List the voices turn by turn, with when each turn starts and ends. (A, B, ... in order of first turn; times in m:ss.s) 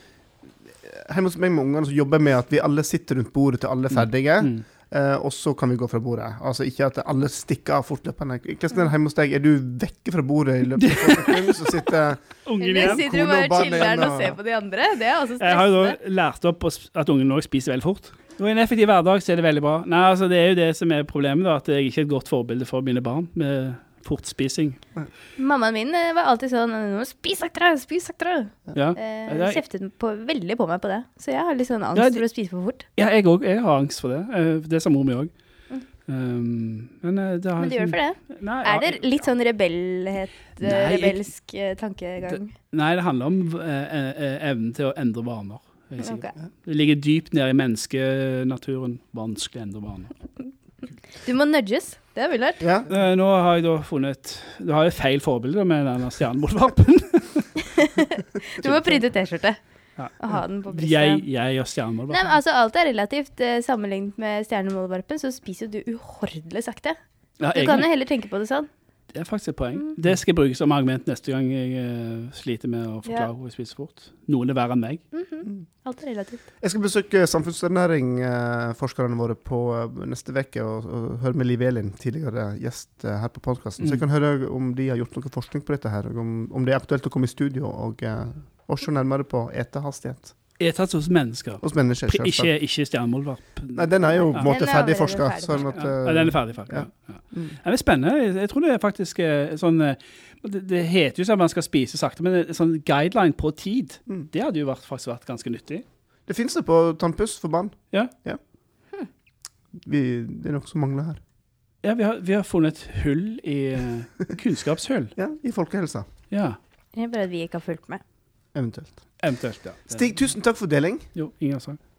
0:00.7-0:12.2 A
0:04.0-0:04.6 B
0:10.8-0:11.8 B
0:12.4-0:13.1 B
0:12.6-0:16.0 C
0:12.8-0:14.4 A
0:15.4-0:24.8 B
0:25.4-0:32.8 C
0:28.8-0:29.6 B
0:32.0-0:32.2 B
0:33.0-0:35.3 B
0:36.1-0:39.2 B
0:37.6-0:42.5 C
0:40.6-0:41.2 B
0:42.3-0:50.1 B
0:46.0-0:46.4 C
0:51.2-0:52.6 C
0:52.6-0:52.9 A
0:52.9-0:57.6 B
0:57.6-0:59.6 C
0:58.6-0:59.0 B
1:00.0-1:02.3 B
1:00.2-1:01.2 C
1:02.1-1:07.0 C
1:07.4-1:07.9 B
1:07.5-1:08.7 C
1:09.1-1:15.0 B
1:15.1-1:16.4 C
1:16.6-1:30.3 A
1:30.6-1:34.5 B
1:31.6-1:32.5 A
1:33.8-1:37.6 A
1:34.4-1:35.8 C
1:35.6-1:45.8 B
1:46.3-1:48.4 A
1:49.8-1:51.2 A
1:51.8-1:55.1 B
1:55.2-1:56.1 A
1:56.3-1:56.6 B
1:57.0-1:58.0 C
1:58.6-1:59.0 A
1:59.2-2:00.2 B
1:59.9-2:01.1 A
2:01.2-2:01.8 B